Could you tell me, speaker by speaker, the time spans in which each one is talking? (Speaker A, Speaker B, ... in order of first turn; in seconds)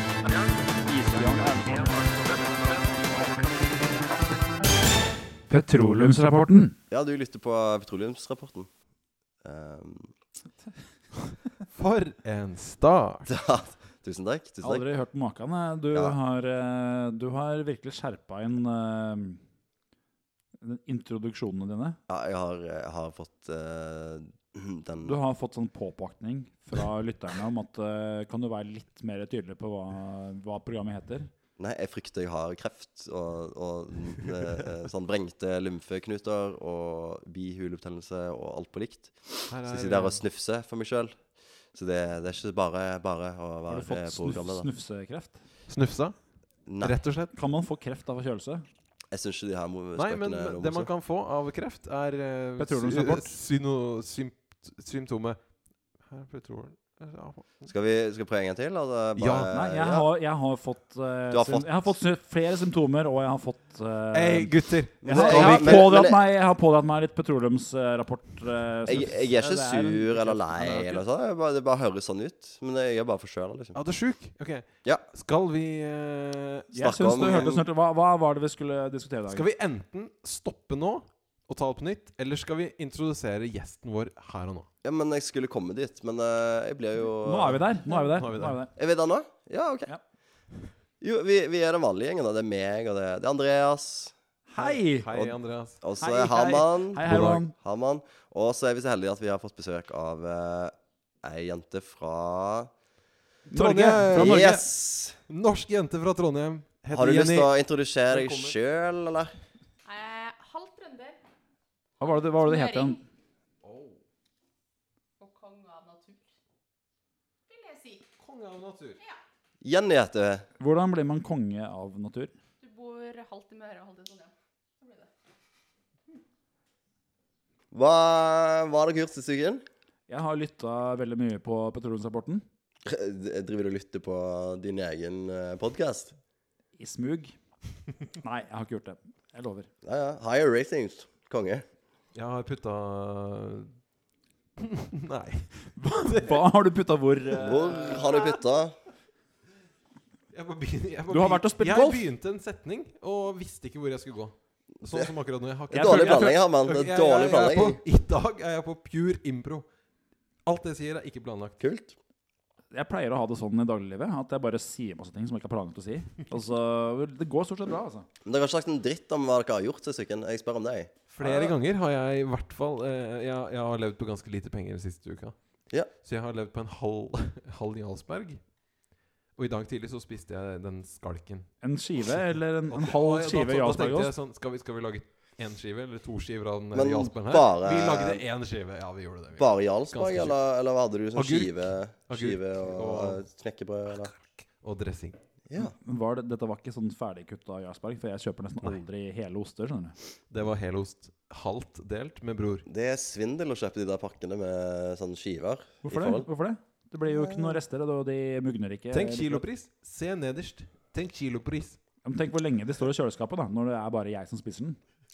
Speaker A: 0.8-2.8, 5.5-6.8, 14.6-19.4, 20.6-22.0, 25.0-31.3, 43.7-45.4, 47.3-48.6, 52.6-53.3, 59.5-71.0, 76.7-79.4, 87.2-88.7, 94.5-95.1, 96.0-97.5, 103.5-104.6, 112.0-113.0, 120.6-122.3, 130.1-132.4, 136.8-137.3, 138.1-139.7, 145.7-148.3, 151.1-152.1, 155.7-156.4, 162.7-168.1, 181.6-184.1, 195.6-199.9, 205.8-209.4, 212.0-214.8
Speaker B: 6.9-8.7, 9.4-10.1, 13.3-14.8, 15.9-16.2, 22.1-25.2, 31.6-41.1, 41.7-44.7, 46.7-47.0, 49.1-50.9, 57.7-60.1, 61.3-61.9, 65.0-66.2, 68.9-73.8, 76.8-77.6, 84.8-87.7, 88.7-89.9, 91.0-94.1, 95.1-102.7, 104.1-105.2, 106.9-109.3, 119.6-120.4, 127.7-129.6, 132.8-136.1, 139.8-141.6, 147.4-148.7, 155.7-157.8, 161.6-162.0, 168.2-171.6, 186.7-188.2, 189.3-194.1, 195.5-195.7, 202.7-206.3, 207.1-207.6
Speaker C: 11.7-13.3, 39.5-40.2, 45.7-46.1, 46.7-47.3, 50.0-57.7, 59.2-59.5, 64.1-65.9, 73.7-77.4, 79.3-84.7, 87.9-88.6, 94.6-95.8, 97.0-97.4, 103.5-104.4, 105.3-107.5, 108.1-108.6, 113.6-114.0, 118.2-119.0, 142.1-143.7, 144.6-145.5, 146.0-146.4, 150.3-159.7, 160.4-161.6, 171.1-178.5, 179.3-181.7, 182.7-190.4, 191.1-193.2, 194.5-195.2, 200.3-202.7, 208.9-211.8
Speaker D: 109.8-111.2, 112.1-113.0, 115.2-116.3, 117.5-118.0, 122.6-125.1